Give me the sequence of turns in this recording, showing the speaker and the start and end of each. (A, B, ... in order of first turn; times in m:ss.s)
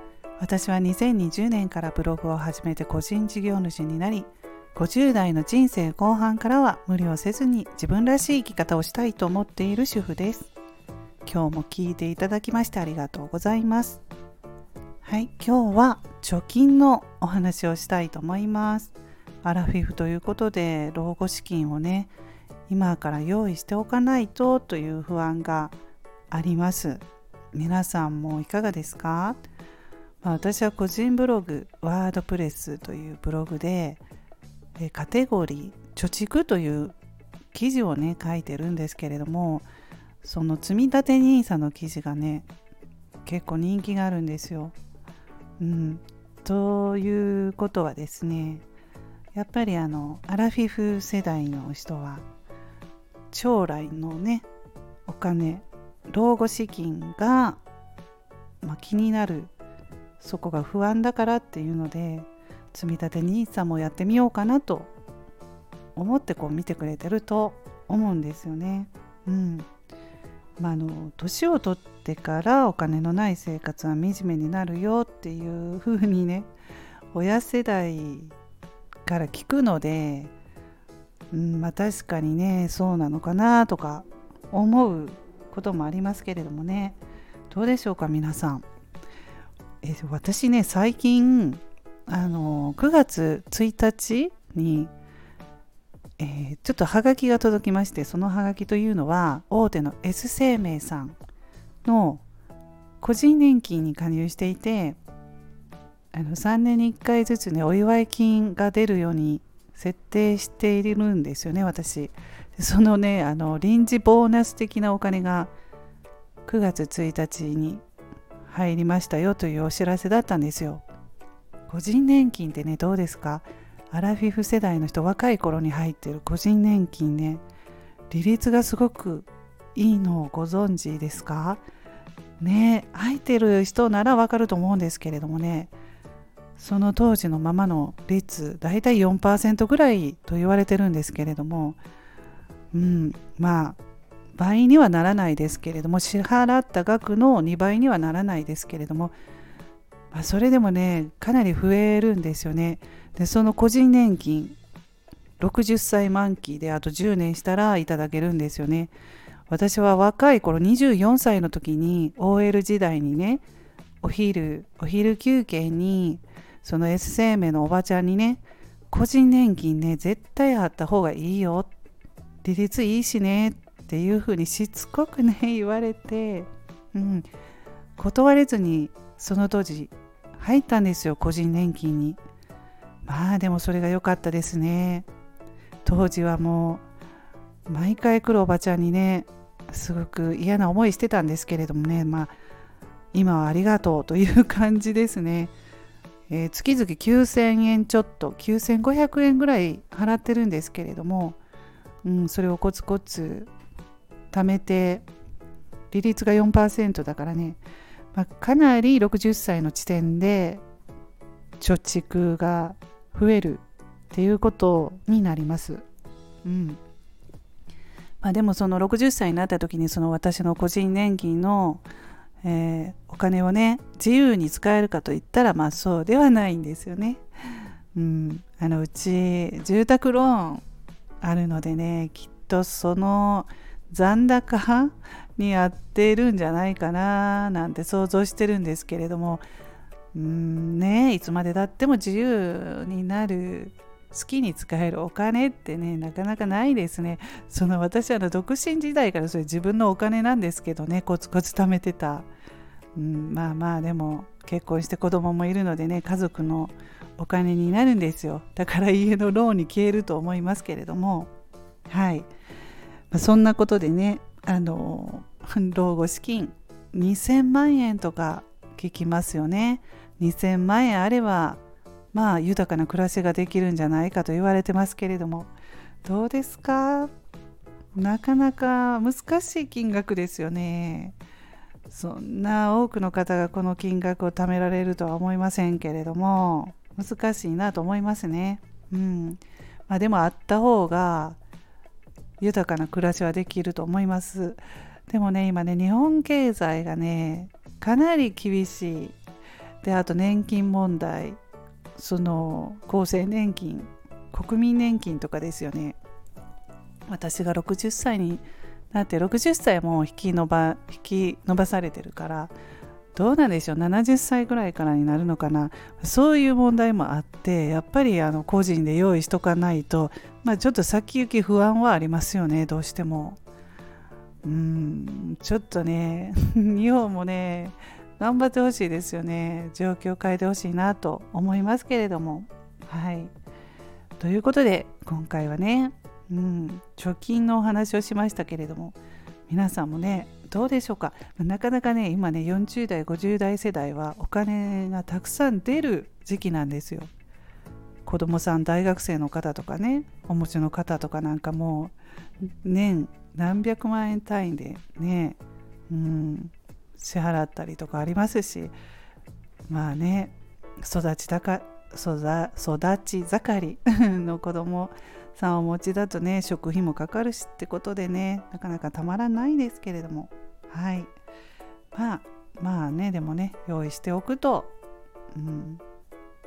0:00.4-0:10.5 A
0:11.2-0:14.0 A
0:15.0-0:22.1 A
0:22.7-0:25.7 A
0:26.3-0:29.4 A
0:30.2-0:34.0 A
0:34.8-0:36.9 A
0:37.5-0:39.7 A
0:40.2-0:42.5 A
0:43.2-0:44.8 A
0:45.6-0:48.6 A
0:49.3-0:52.2 A
0:53.3-0:54.5 A
0:55.0-0:57.6 A
0:58.6-0:59.5 A
1:00.2-1:04.9 A
1:06.0-1:09.7 A
1:10.6-1:16.5 A
1:17.1-1:18.3 A
1:19.0-1:20.3 A
1:21.3-1:27.0 A
1:27.5-1:28.6 A
1:29.8-1:34.9 A
1:36.2-1:41.2 A
1:41.8-1:42.2 A
1:43.0-1:45.0 A
1:46.1-1:55.5 A
1:56.4-1:57.8 A
1:58.5-2:00.8 A
2:01.7-2:07.4 A
2:08.1-2:11.6 A
2:12.4-2:15.7 A
2:16.6-2:21.8 A
2:22.7-2:23.8 A
2:24.3-2:29.1 A
2:30.1-2:34.6 A
2:35.4-2:38.9 A
2:39.5-2:43.4 A
2:44.0-2:51.7 A
2:52.4-2:57.3 A
2:58.0-3:02.2 A
3:03.0-3:05.1 A
3:05.8-3:06.8 A
3:07.7-3:12.3 A
3:13.1-3:15.5 A
3:16.3-3:21.4 A
3:22.0-3:23.5 A
3:24.3-3:25.1 A
3:25.9-3:27.6 A
3:28.1-3:30.6 A
3:31.6-3:35.8 A
3:36.4-3:36.8 A
3:38.2-3:41.8 A
3:42.4-3:50.6 A
3:51.2-3:59.4 A
4:00.1-4:12.3 A
4:12.9-4:21.3 A
4:21.9-4:22.3 A
4:23.1-4:31.6 A
4:32.1-4:35.5 A
4:36.0-4:37.1 A
4:37.9-4:41.2 A
4:41.9-4:51.4 A
4:52.4-4:59.2 A
4:59.8-5:01.4 A
5:01.9-5:06.0 A
5:07.1-5:12.5 A
5:13.1-5:23.4 A
5:24.4-5:33.3 A
5:34.2-5:39.0 A
5:39.5-5:47.1 A
5:48.0-5:58.7 A
5:59.7-6:11.1 A
6:11.9-6:14.7 A
6:15.3-6:15.8 A